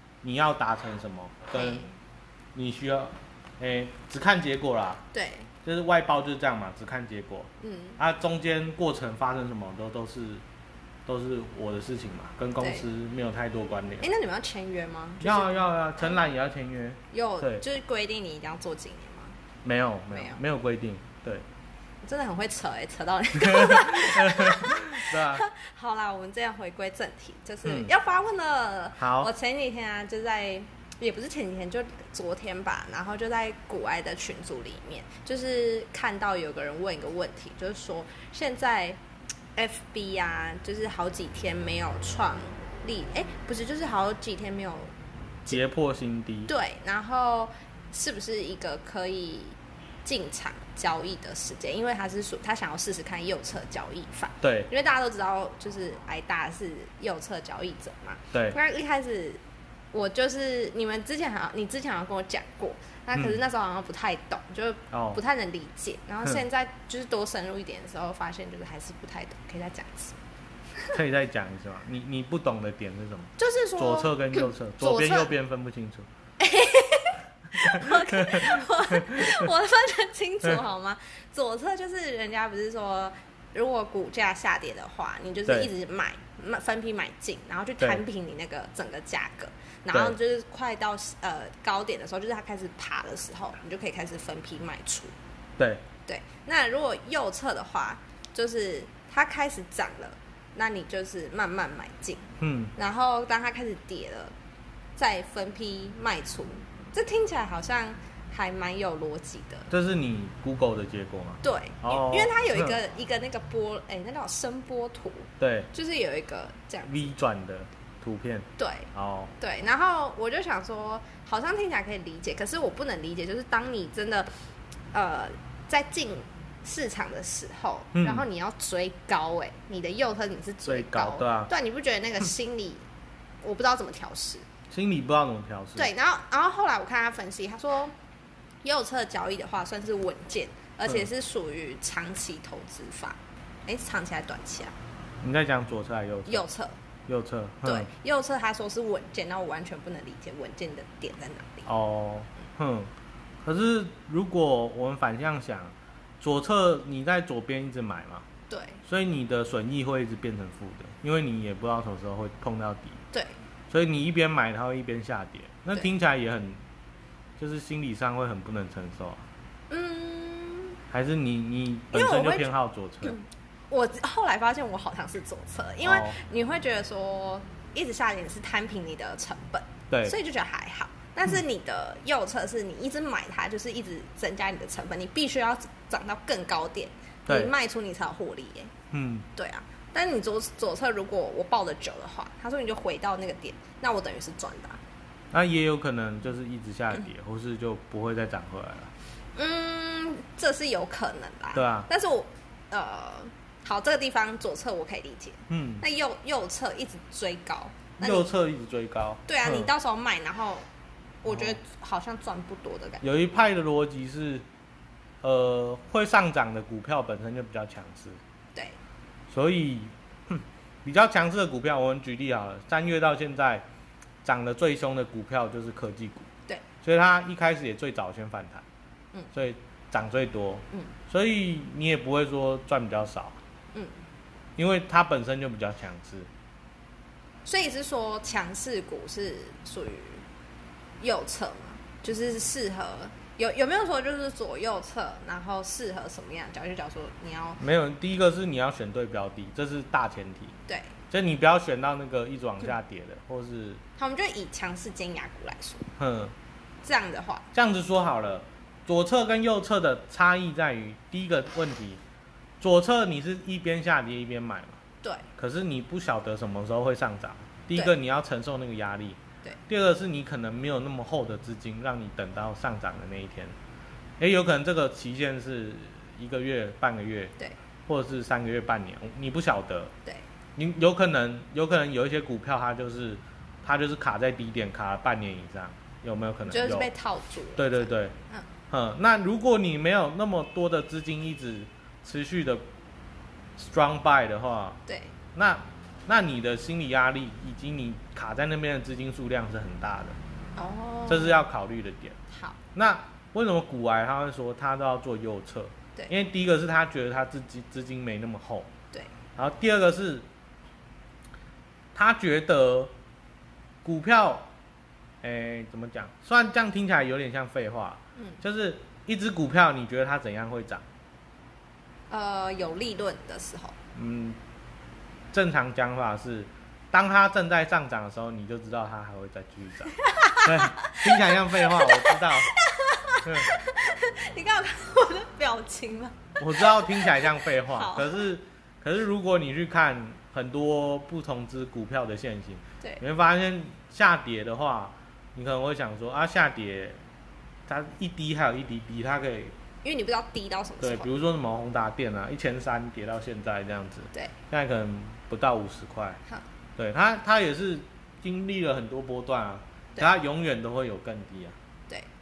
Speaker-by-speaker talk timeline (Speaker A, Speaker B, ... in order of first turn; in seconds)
Speaker A: 0.2-1.8, 2.5-5.0, 5.6-10.4, 11.1-14.1, 15.2-17.6, 19.6-21.4, 23.3-25.5, 27.6-27.9, 29.0-29.3, 45.5-46.5, 54.4-54.7, 63.1-63.4, 64.9-65.2, 70.9-76.1, 77.6-79.5, 89.9-90.2, 95.6-95.8, 102.4-102.7, 109.7-112.8, 115.4-115.7, 116.9-119.3, 127.9-128.2, 130.6-131.5, 134.7-135.9, 145.2-146.4, 147.1-147.9, 151.7-152.9, 153.4-158.2, 158.8-163.0, 163.7-166.6, 167.4-169.2, 170.9-173.2, 175.8-176.2, 179.9-180.2, 187.3-187.5, 188.9-189.3, 195.3-198.9, 201.5-201.9, 205.5-205.8, 208.0-209.7, 211.3-211.6, 213.0-214.4, 215.2-218.2, 219.3-223.6, 224.2-226.3, 226.8-228.6, 229.3-233.4, 234.6-236.3, 247.6-250.6, 251.1-253.8, 256.0-256.3, 257.5-262.0, 262.6-264.8, 265.4-273.6, 274.2-277.3, 277.9-279.9, 280.6-286.9, 287.6-288.1, 288.7-292.6, 293.6-294.8, 295.3-300.2, 301.1-302.2, 302.7-308.7, 309.4-310.2, 311.9-312.9, 313.8-314.5, 315.2-320.8, 323.9-324.4, 325.3-332.5, 333.2-333.5, 336.4-347.0, 347.7-349.5, 350.8-356.2, 356.8-361.6
Speaker B: 1.5-1.9, 5.1-5.5, 7.6-8.0, 12.6-12.8, 14.0-15.6, 17.1-19.4, 20.1-20.4, 22.0-39.0, 39.5-44.9, 46.5-59.4, 59.9-70.2, 73.4-75.3, 76.4-95.1, 96.0-104.3, 105.0-109.7, 111.4-117.1, 118.6-124.3, 124.9-132.8, 133.4-134.5, 135.8-137.9, 138.6-144.7, 146.2-146.8, 147.6-151.7, 158.5-158.8, 169.7-170.8, 171.9-172.5, 173.0-188.7, 189.3-194.8, 199.3-208.3, 209.3-210.7, 211.2-213.0, 237.4-240.2, 241.0-247.6, 250.7-250.9, 254.0-255.9, 256.8-257.5, 286.5-288.4, 294.9-295.1, 300.6-301.4, 302.3-302.6, 322.1-323.8, 329.9-338.2, 349.8-351.1